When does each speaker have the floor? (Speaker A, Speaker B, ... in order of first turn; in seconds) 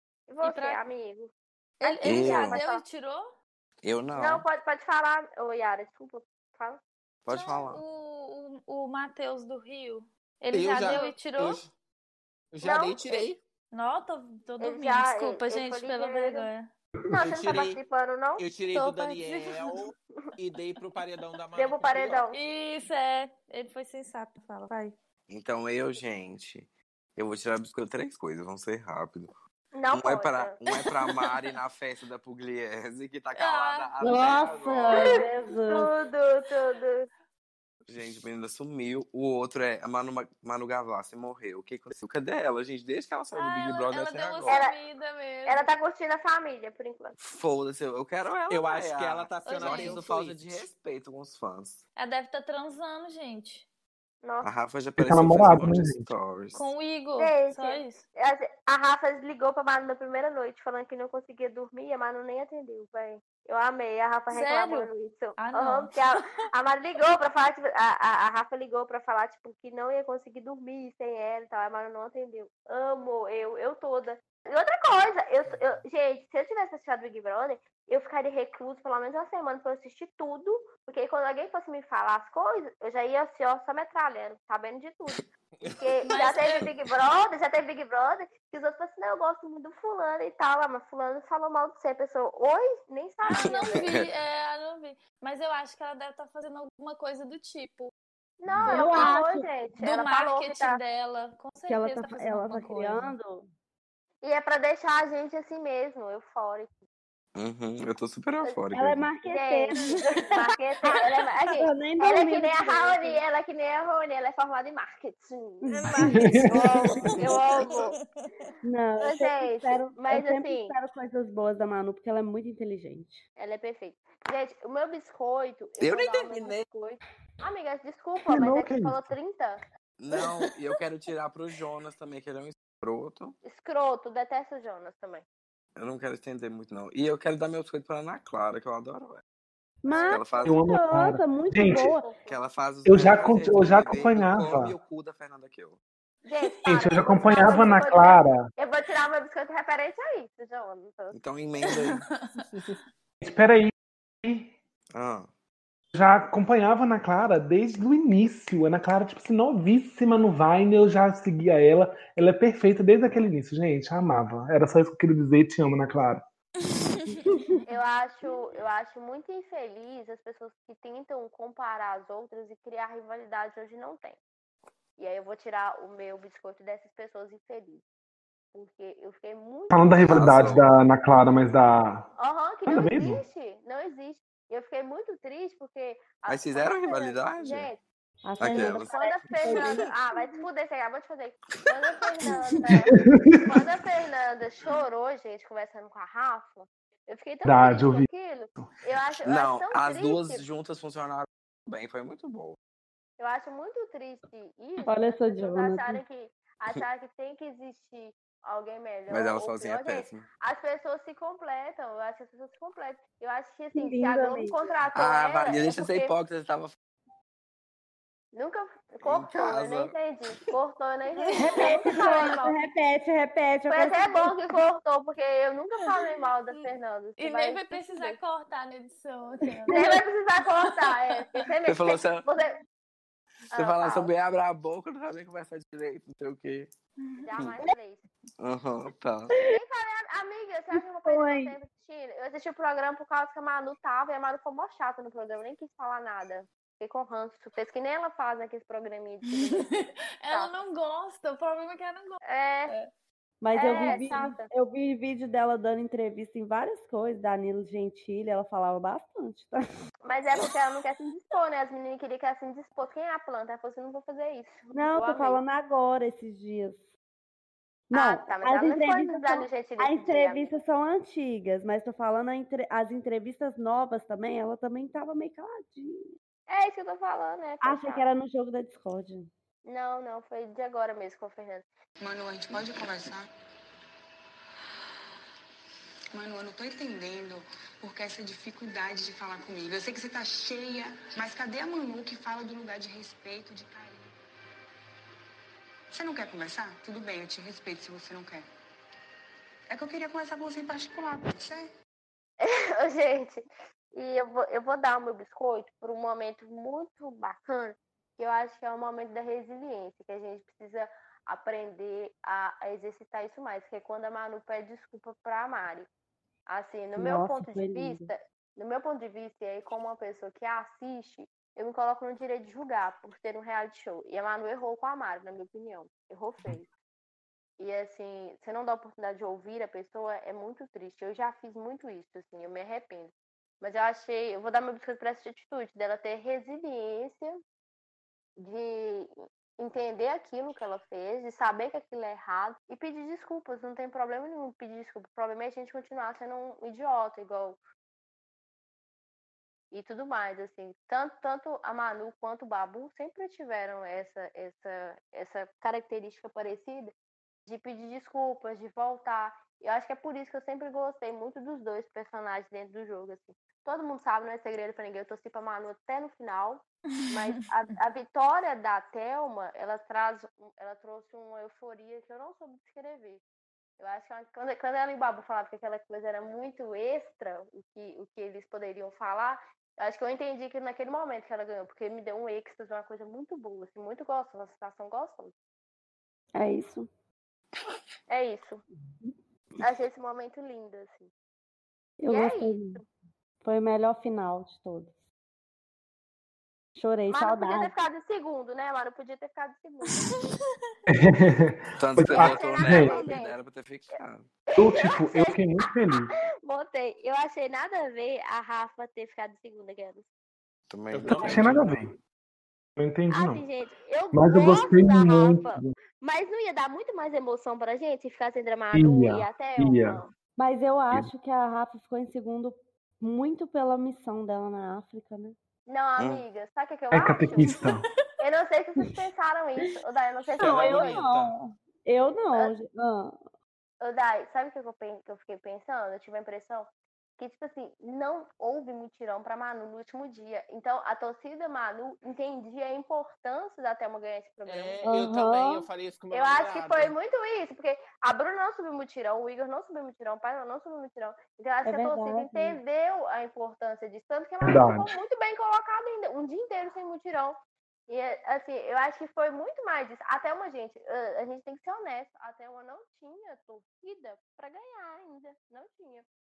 Speaker A: 0.3-1.3, 1.8-2.8, 4.1-6.8, 10.8-11.1, 12.6-13.2, 14.6-16.5, 17.1-18.5, 21.6-22.4, 29.7-30.6, 35.7-37.1, 44.5-44.8, 45.5-47.2, 54.2-54.5, 57.2-93.9, 98.4-100.8, 104.2-106.8, 109.3-118.0, 119.0-120.8, 123.4-129.6, 133.4-135.2, 139.9-140.4, 142.0-142.4, 146.2-151.2, 167.7-174.2, 175.0-177.8, 178.5-180.6, 182.2-187.8, 188.4-200.4, 203.2-216.1, 218.3-222.5, 223.7-228.2, 229.7-232.6, 233.5-234.1, 237.2-238.1, 239.5-250.5, 252.2-252.7, 253.5-254.5, 260.0-265.4, 267.9-270.5, 276.5-278.1, 279.6-281.7, 302.4-315.9, 316.5-326.7, 327.6-337.4, 338.4-347.6, 349.7-356.9, 357.5-373.2, 373.8-385.3, 388.1-388.6, 389.6-391.1, 392.1-392.8, 397.1-400.2, 402.1-403.4, 404.6-405.7, 406.4-410.1, 413.1-420.1, 425.7-427.7, 428.2-431.0, 433.8-444.8, 446.1-466.1
Speaker B: 0.4-0.8, 1.8-3.4, 7.3-11.6, 13.7-16.7, 18.7-19.6, 22.3-24.9, 33.4-34.3, 43.3-45.7, 49.5-50.0, 52.0-53.7, 56.5-58.0, 64.3-66.1, 86.0-86.7, 93.3-97.9, 99.8-103.2, 115.8-118.5, 151.7-152.4, 166.8-167.2, 221.3-222.4, 227.2-229.8, 230.9-231.4, 237.0-237.3, 249.3-252.9, 253.7-254.2, 366.9-367.4, 399.9-400.7
Speaker C: 2.0-2.6, 3.8-4.5, 7.2-7.8, 25.3-29.4, 29.9-35.2, 37.9-44.6, 47.2-51.8, 54.4-56.7, 93.3-94.1, 98.5-99.0, 107.3-109.1, 125.8-126.6, 130.0-133.4, 135.8-139.2, 140.1-140.5, 142.3-145.8, 151.1-152.1, 154.9-155.3, 180.1-180.7, 186.3-187.7, 188.4-188.9, 199.2-202.6, 209.1-210.2, 214.9-216.8, 219.0-219.9, 231.7-232.3, 233.5-236.7, 238.4-239.3, 401.8-404.3, 410.7-411.6, 426.0-426.2
Speaker D: 10.5-11.7, 12.5-13.4, 17.1-17.8, 18.4-22.3, 48.5-50.7, 125.9-126.4, 152.5-152.8, 410.9-411.6, 430.4-431.3, 444.5-446.9
Speaker E: 34.0-35.9, 98.7-99.5, 101.7-103.5, 108.7-111.0, 111.6-113.2, 115.7-117.0, 118.6-123.2, 139.8-142.1, 167.3-167.6, 188.2-190.4, 204.9-206.0, 213.8-214.6, 221.4-224.3, 241.1-241.6, 253.4-259.6, 264.7-266.9, 267.9-276.1, 277.6-279.3, 316.9-318.1, 386.4-386.9, 392.0-392.8, 393.4-395.0, 396.8-397.7, 420.4-425.4, 430.4-433.3, 444.8-445.7, 451.6-452.6
Speaker F: 55.0-56.1, 116.0-117.0, 128.3-129.1, 140.4-141.9, 142.9-144.7, 146.7-148.5, 153.2-153.7, 154.2-154.5, 155.9-166.2, 179.7-182.1, 182.7-183.2, 192.7-193.6, 197.4-198.1, 400.9-403.0, 404.6-406.1, 411.1-412.0, 412.8-413.4, 414.1-415.7, 418.7-420.0, 426.9-427.8, 454.4-454.9
Speaker G: 282.0-283.3, 286.1-294.1, 295.9-298.4, 299.7-301.7